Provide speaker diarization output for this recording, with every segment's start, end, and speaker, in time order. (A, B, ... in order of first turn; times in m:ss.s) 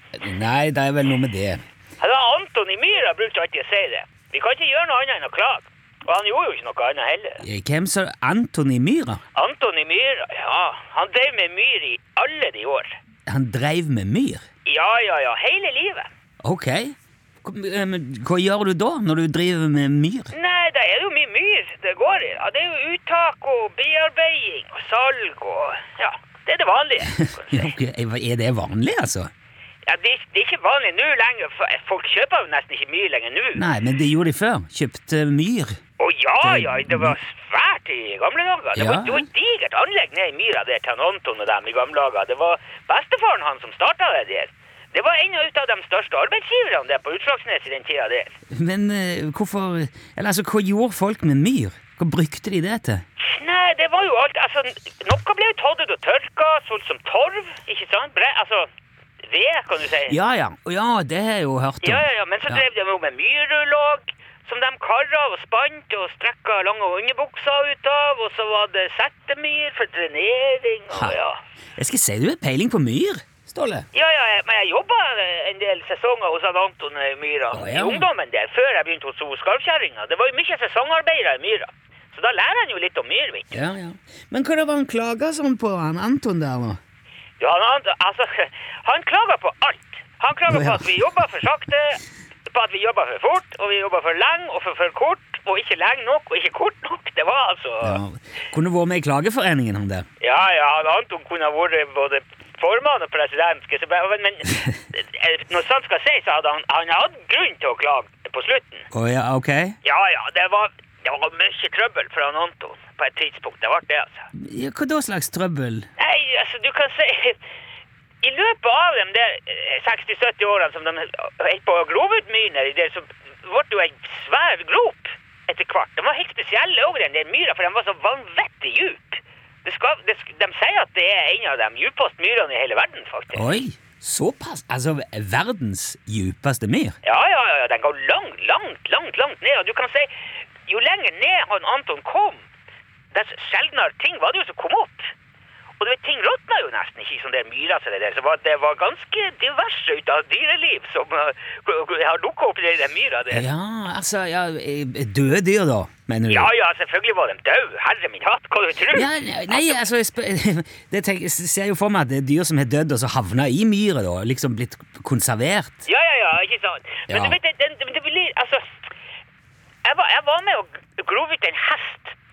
0:00.2-0:01.6 A
0:02.0-0:07.4 B
0:07.4-0:09.2 A
0:09.3-0:13.0 B
0:13.3-0:14.4 A
0:14.6-0:16.1 B
0:16.4-0:20.3 A
0:20.3-0:27.8 B
0:27.1-0:29.3 A
0:29.9-0:33.6 B
0:33.6-0:35.8 A
0:36.0-0:48.4 B
0:36.4-0:37.2 A
0:38.8-0:39.3 A
0:48.5-0:53.0 A
0:53.2-0:58.7 B
0:59.3-1:00.2 B
1:00.1-1:02.6 A
1:01.8-1:11.4 B
1:11.8-1:13.9 A
1:13.9-1:23.6 B
1:17.5-1:18.1 A
1:23.5-1:26.8 A
1:27.4-1:38.0 B
1:30.5-1:31.3 A
1:37.8-1:40.1 A
1:40.2-1:48.9 B
1:48.9-1:49.8 A
1:49.8-1:54.3 B
1:54.4-1:55.9 A
1:56.0-1:57.4 B
1:58.2-2:13.6 B
2:13.3-2:17.0 A
2:17.0-2:20.1 B
2:20.7-2:22.4 B
2:23.1-2:25.1 B
2:25.8-2:33.4 B
2:33.3-2:36.5 A
2:36.3-2:39.8 B
2:38.9-2:45.9 A
2:45.9-2:48.9 B
2:47.1-2:47.4 A
2:49.8-2:52.2 B